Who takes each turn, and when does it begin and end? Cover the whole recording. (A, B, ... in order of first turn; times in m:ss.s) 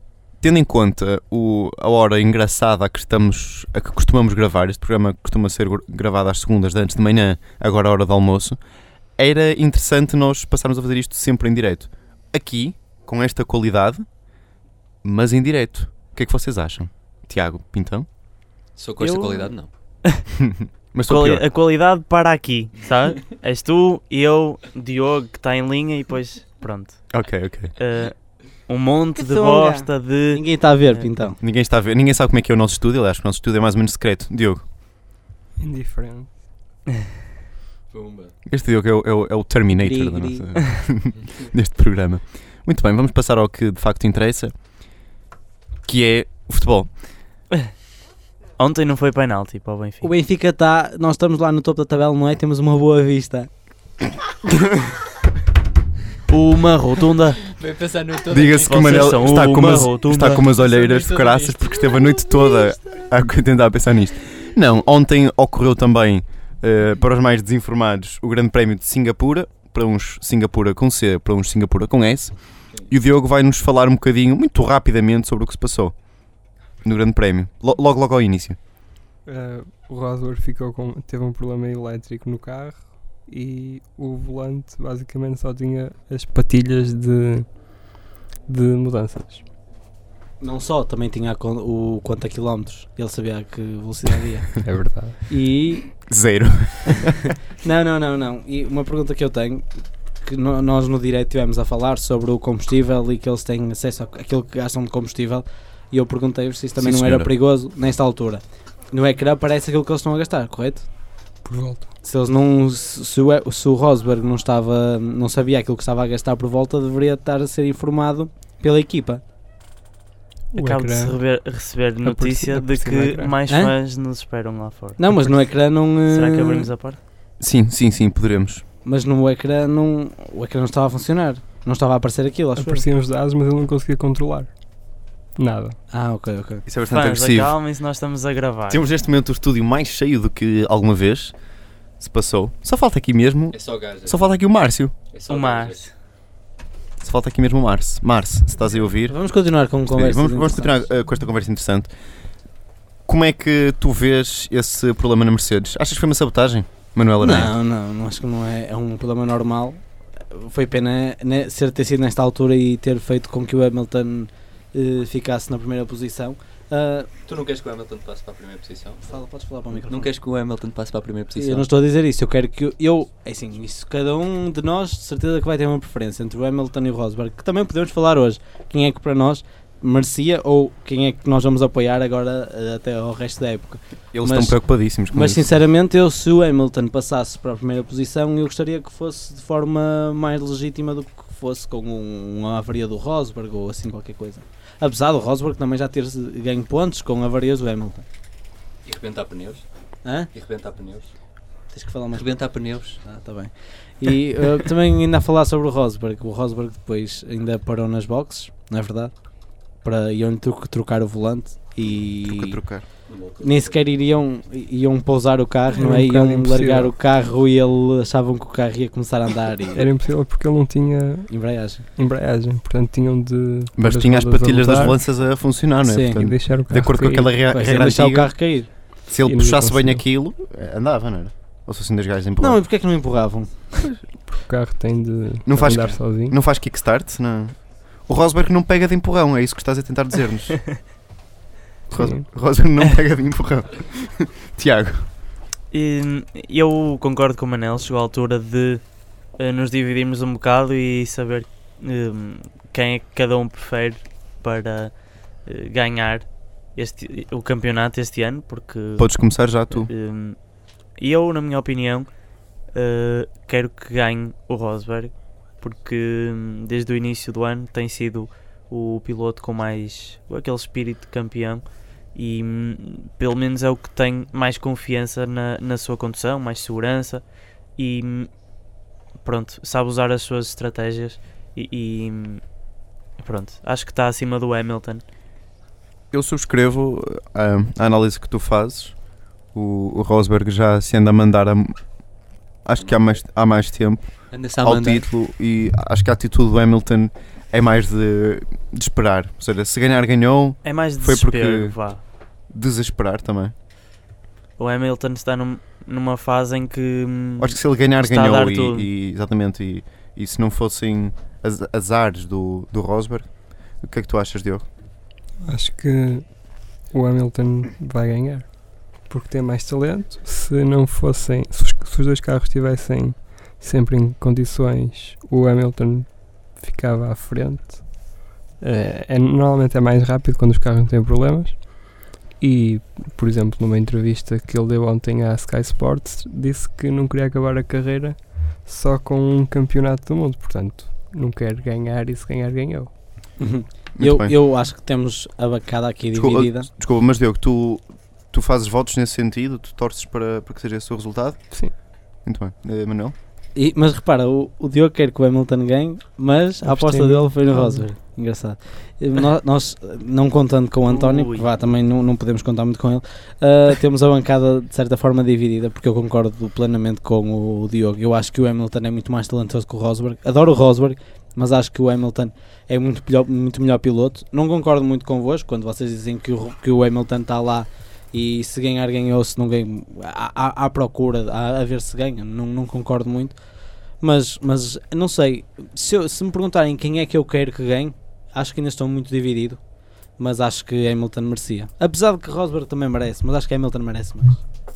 0:00.4-0:08.6 A
0:09.2-0:14.1 A
0:15.0-0:18.1 A
0:18.8-0:19.7 B
0:19.0-0:19.5 C
0:20.4-0:21.4 A
0:21.1-0:27.2 C
0:27.1-0:27.7 A
0:27.8-0:31.1 C
0:29.2-0:31.4 D
0:31.4-0:34.6 A
0:35.6-0:36.3 E
0:37.9-0:38.3 B
0:38.5-0:44.5 A
0:39.8-0:40.6 D
0:45.9-0:46.9 A
0:48.6-0:50.1 C
0:50.0-0:53.5 D
0:56.3-0:57.5 C
0:57.5-0:59.8 B
0:58.3-1:12.4 A
0:58.6-1:00.5 C
1:00.7-1:01.8 D
1:12.9-1:15.9 A
1:16.8-1:18.6 A
1:19.3-1:27.6 E
1:28.5-1:29.4 E
1:30.4-1:35.9 D
1:34.6-1:35.2 E
1:36.0-1:37.1 A
1:37.5-1:50.9 D
1:46.8-1:47.3 A
1:51.4-1:51.9 E
1:52.0-1:59.2 D
2:00.5-2:01.2 E
2:00.6-2:05.0 C
2:02.0-2:03.4 E
2:03.5-2:03.7 D
2:05.0-2:06.7 D
2:06.1-2:07.0 C
2:07.4-2:08.6 A
2:08.8-2:12.9 D
2:12.6-2:14.5 E
2:15.4-2:15.8 E
2:15.9-2:16.6 D
2:16.7-2:17.6 A
2:16.9-2:18.8 C
2:18.7-2:21.3 A
2:22.0-2:24.9 A
2:23.5-2:24.4 B
2:25.1-2:25.9 B
2:25.3-2:25.9 C
2:27.0-2:29.2 A
2:29.1-2:30.9 D
2:29.9-2:31.9 A
2:33.1-2:37.5 A
2:37.2-2:47.1 D
2:47.3-2:49.1 B
2:49.0-2:50.1 D
2:49.7-2:51.7 B
2:51.4-3:04.6 D
3:04.1-3:05.5 A
3:05.1-3:18.0 D
3:18.8-3:19.6 B
3:20.0-3:20.3 D
3:20.3-3:21.1 B
3:21.7-3:29.1 D
3:22.1-3:23.0 B
3:29.8-3:32.6 D
3:32.2-3:32.9 A
3:33.1-3:33.8 B
3:33.4-3:39.9 D
3:35.7-3:36.9 E
3:39.8-3:41.3 E
3:41.3-3:41.8 D
3:42.0-3:45.0 E
3:43.8-3:48.4 A
3:45.9-3:46.2 D
3:46.1-3:47.4 E
3:47.4-3:48.7 D
3:49.1-3:52.6 A
3:49.2-3:50.0 E
3:52.4-3:53.8 D
3:54.3-3:56.4 E
3:55.5-4:00.8 A
4:01.9-4:05.1 A
4:02.0-4:02.2 E
4:05.7-4:08.8 C
4:09.4-4:14.9 C
4:15.5-4:19.1 C
4:19.0-4:19.9 A
4:19.7-4:20.4 C
4:21.0-4:22.1 C
4:22.7-4:31.6 C
4:32.2-4:37.2 C
4:37.8-4:38.3 C
4:39.2-4:42.4 C
4:43.2-4:45.0 C
4:46.1-4:49.0 A
4:49.5-4:51.8 A
4:52.6-5:01.8 A
4:52.8-4:53.2 B
4:54.3-4:55.1 B
5:00.6-5:02.0 C
5:02.5-5:03.5 A
5:04.6-5:08.9 C
5:07.4-5:14.7 A
5:15.4-5:28.0 E
5:28.6-5:42.9 E
5:43.4-5:46.7 D
5:44.0-5:44.3 A
5:46.1-5:53.2 A
5:53.6-6:23.4 D
5:56.6-5:57.9 E
6:00.9-6:01.5 C
6:24.0-6:29.6 D
6:30.2-6:34.4 D